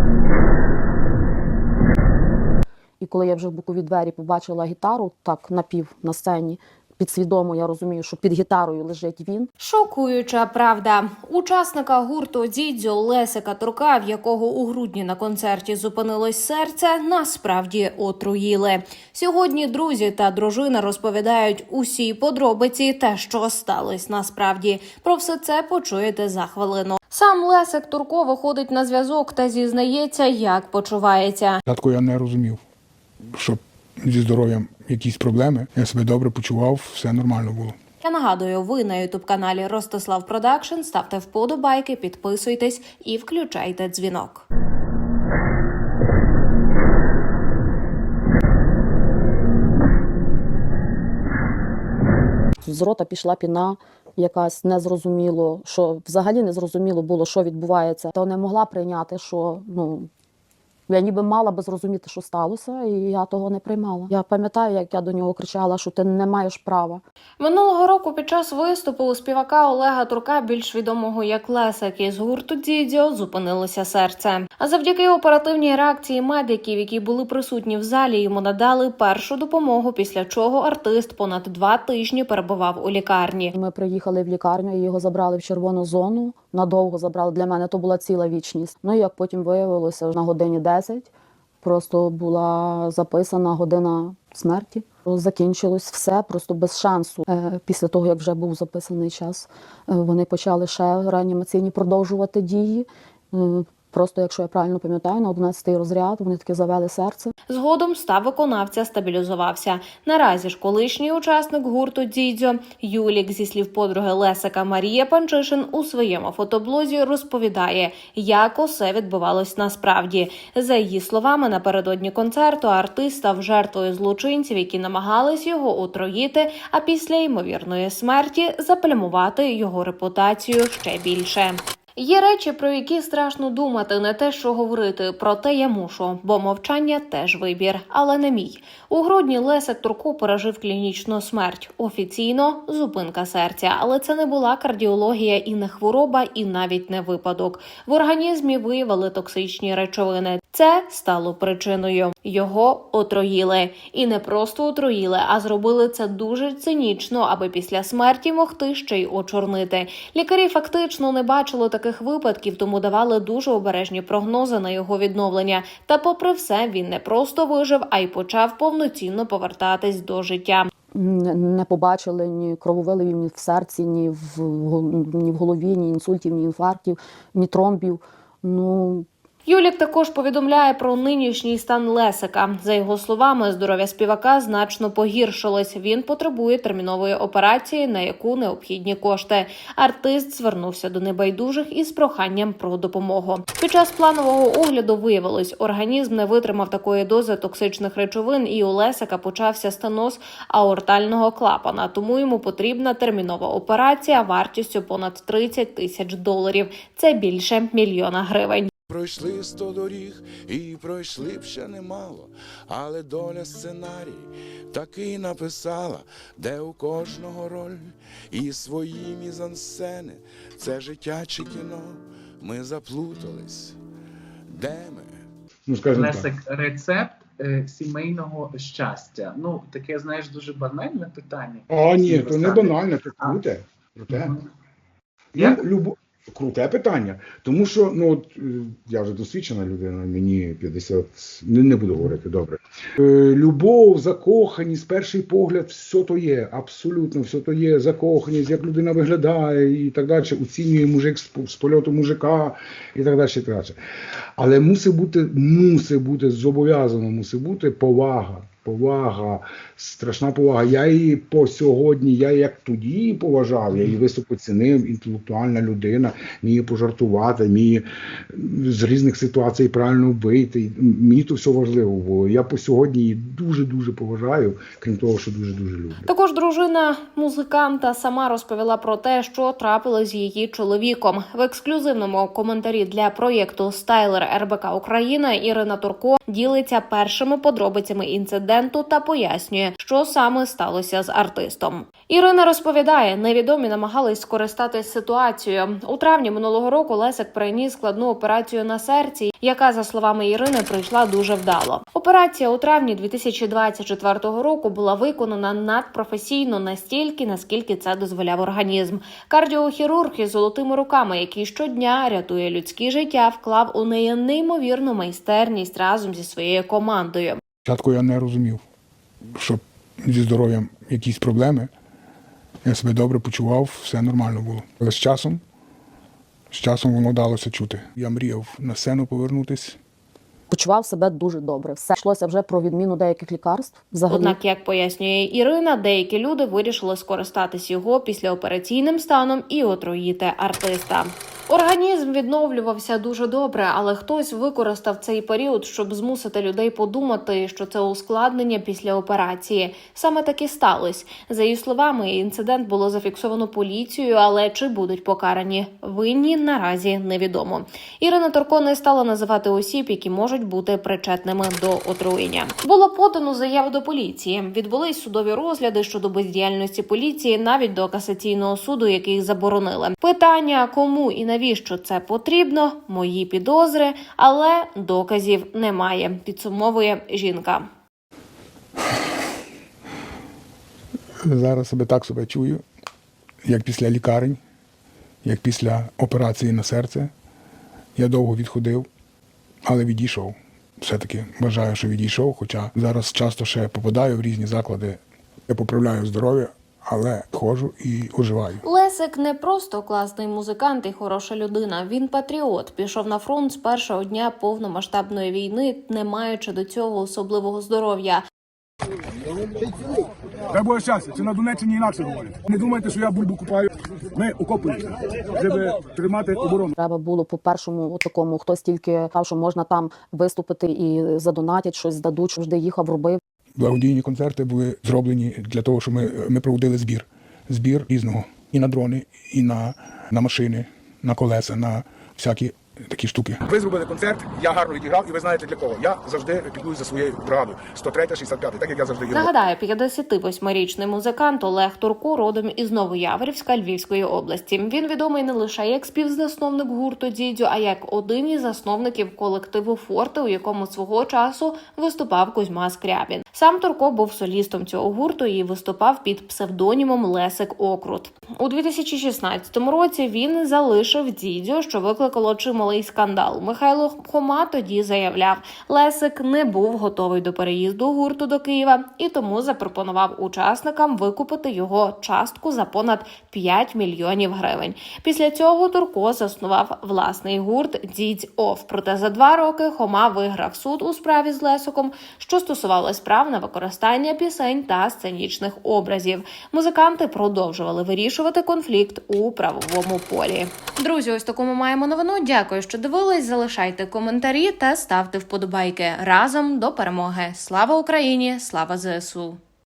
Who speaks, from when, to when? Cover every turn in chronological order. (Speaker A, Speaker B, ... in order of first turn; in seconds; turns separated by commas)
Speaker A: 3.0-9.5, Speaker B: 9.6-31.6, Speaker C: 31.6-32.6, Speaker C: 33.3-37.8, Speaker B: 38.0-44.4, Speaker A: 52.6-60.1, Speaker A: 60.9-67.0, Speaker B: 67.4-83.5, Speaker A: 83.5-91.1, Speaker A: 91.6-107.3, Speaker B: 107.5-170.7, Speaker A: 170.9-179.1, Speaker B: 179.4-208.7, Speaker D: 208.9-223.8, Speaker D: 224.5-225.1, Speaker E: 225.7-226.3, Speaker F: 225.9-232.7, Speaker E: 231.7-234.3, Speaker E: 235.3-253.8, Speaker E: 254.4-276.0, Speaker B: 276.0-317.4, Speaker C: 317.6-318.6, Speaker C: 319.3-321.7, Speaker C: 322.6-325.4, Speaker C: 326.5-329.8, Speaker A: 330.5-334.4, Speaker B: 334.1-377.6, Speaker C: 381.2-382.6, Speaker C: 383.4-384.4, Speaker C: 385.2-387.1, Speaker C: 387.9-388.9, Speaker C: 389.6-398.6, Speaker B: 398.6-408.2, Speaker G: 412.2-413.0, Speaker G: 414.4-414.8, Speaker A: 416.8-423.2, Speaker C: 423.6-433.6, Speaker G: 433.7-439.0, Speaker B: 439.1-499.4